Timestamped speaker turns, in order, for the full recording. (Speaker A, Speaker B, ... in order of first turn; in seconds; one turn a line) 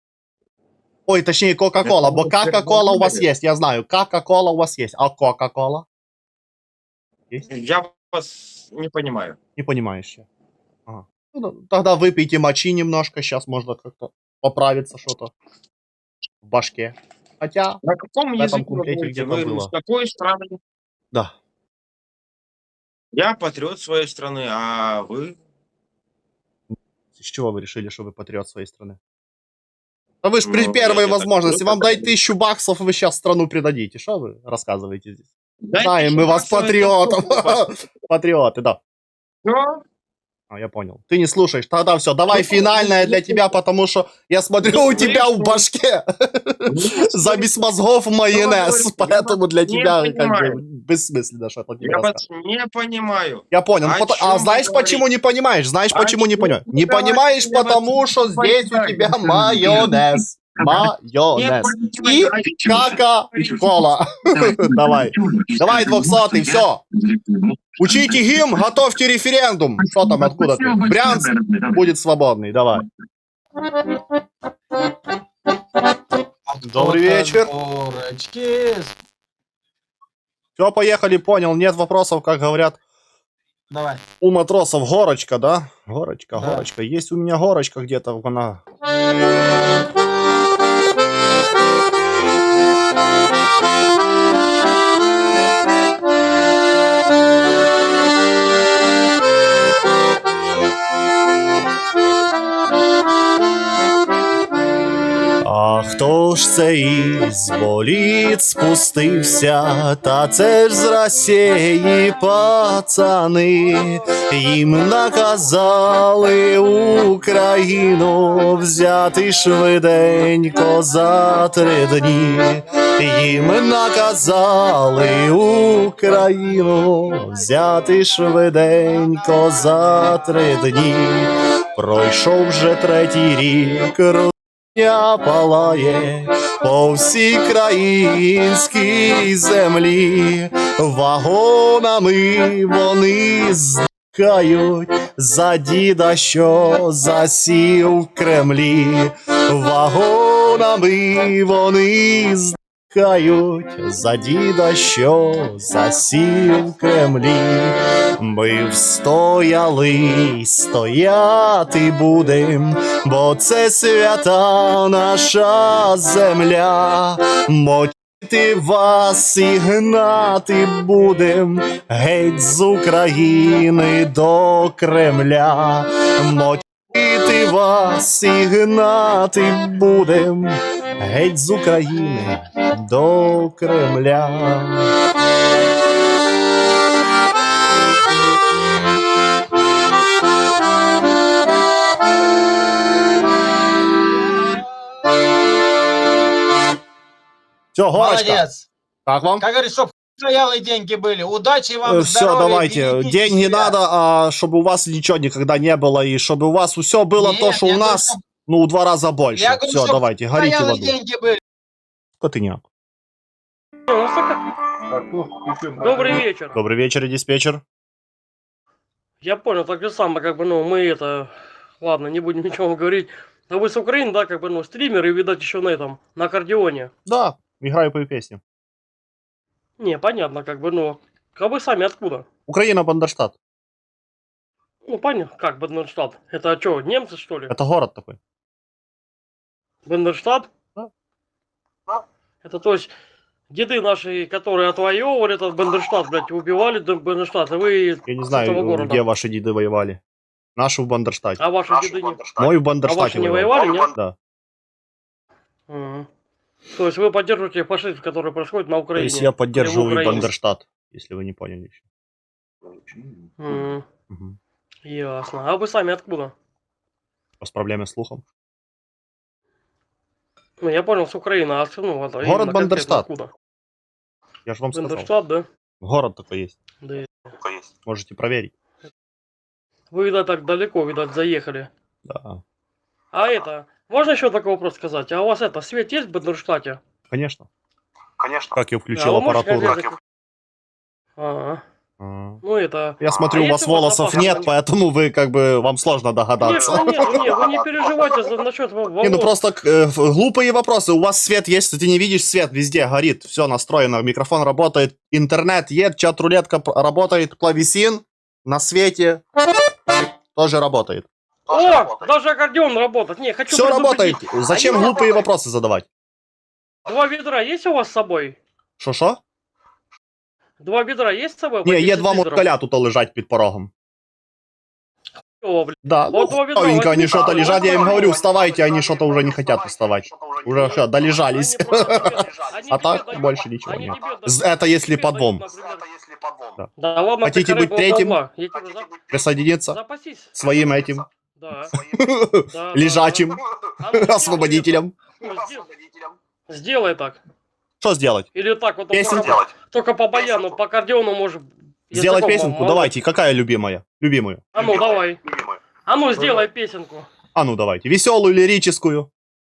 Speaker A: 1.1-5.9
Speaker B: 1.8-3.3
Speaker B: 7.5-9.4
Speaker A: 9.6-10.3
Speaker A: 10.9-15.3
Speaker A: 16.5-17.8
Speaker B: 17.8-20.6
Speaker A: 18.4-19.7
Speaker B: 23.1-25.4
Speaker A: 26.7-29.0
Speaker A: 30.2-38.8
Speaker B: 30.4-32.1
Speaker B: 35.6-37.7
Speaker B: 39.4-39.8
Speaker A: 40.5-52.2
Speaker B: 42.3-43.5
Speaker B: 44.6-45.6
Speaker B: 46.7-47.6
Speaker B: 48.3-50.6
Speaker B: 51.8-55.0
Speaker A: 53.5-66.8
Speaker B: 55.9-60.1
Speaker B: 60.6-63.7
Speaker B: 64.4-68.2
Speaker A: 67.8-72.9
Speaker B: 69.9-71.8
Speaker C: 76.5-79.0
Speaker A: 76.6-77.5
Speaker A: 80.6-82.8
Speaker C: 83.7-84.0
Speaker A: 84.2-88.6
Speaker C: 86.4-86.7
Speaker A: 105.4-184.9
Speaker A: 197.8-198.4
Speaker C: 197.9-198.7
Speaker A: 199.1-199.4
Speaker C: 199.4-203.7
Speaker A: 201.9-210.9
Speaker C: 207.2-208.2
Speaker C: 209.3-211.4
Speaker A: 212.2-212.7
Speaker D: 213.9-214.4
Speaker C: 215.3-216.2
Speaker D: 215.8-216.6
Speaker A: 216.5-217.6
Speaker D: 219.2-226.9
Speaker A: 227.1-228.4
Speaker D: 229.8-232.2
Speaker A: 232.5-233.4
Speaker D: 234.9-237.5
Speaker A: 237.5-238.2
Speaker D: 239.8-240.5
Speaker D: 242.4-242.9
Speaker D: 243.5-249.1
Speaker A: 248.1-250.0
Speaker A: 250.6-251.4
Speaker D: 251.4-252.3
Speaker E: 251.7-252.5
Speaker A: 252.4-254.2
Speaker D: 252.8-253.9
Speaker E: 253.5-253.9
Speaker D: 255.7-256.1
Speaker D: 256.7-260.3
Speaker A: 259.0-261.8
Speaker D: 263.4-263.8
Speaker A: 264.1-264.4
Speaker D: 264.9-266.3
Speaker A: 267.4-268.2
Speaker D: 270.6-273.3
Speaker A: 272.2-273.1
Speaker A: 274.5-275.1
Speaker D: 274.8-275.5
Speaker A: 275.8-276.6
Speaker D: 276.8-277.4
Speaker E: 277.4-277.6
Speaker A: 277.9-278.5
Speaker D: 279.9-281.7
Speaker A: 282.1-282.4
Speaker D: 283.1-286.8
Speaker A: 287.1-287.5
Speaker E: 288.2-288.6
Speaker A: 288.5-289.8
Speaker D: 288.9-290.0
Speaker D: 291.2-291.6
Speaker A: 292.0-292.4
Speaker D: 292.4-294.5
Speaker A: 293.0-297.2
Speaker E: 294.1-294.4
Speaker D: 296.4-299.3
Speaker E: 296.4-298.3
Speaker A: 299.0-309.2
Speaker A: 310.4-311.1
Speaker E: 311.5-312.1
Speaker D: 311.5-315.2
Speaker A: 313.5-315.9
Speaker E: 314.6-314.9
Speaker D: 316.9-318.4
Speaker A: 318.8-319.2
Speaker D: 320.6-322.5
Speaker A: 321.6-323.7
Speaker D: 325.4-328.1
Speaker A: 325.9-335.5
Speaker E: 327.0-330.8
Speaker D: 330.6-335.9
Speaker E: 331.7-332.6
Speaker E: 335.5-336.6
Speaker D: 336.8-339.1
Speaker A: 337.2-338.2
Speaker A: 339.1-339.8
Speaker D: 339.7-340.3
Speaker A: 340.4-341.1
Speaker D: 341.4-341.7
Speaker A: 341.7-343.4
Speaker D: 342.5-345.7
Speaker A: 343.9-344.9
Speaker E: 345.2-346.1
Speaker D: 346.5-347.2
Speaker A: 347.8-348.3
Speaker D: 348.4-352.9
Speaker A: 348.9-349.4
Speaker E: 349.0-349.5
Speaker A: 351.9-354.4
Speaker D: 354.5-355.2
Speaker E: 354.6-355.6
Speaker D: 355.9-357.1
Speaker B: 356.2-356.4
Speaker A: 357.4-359.1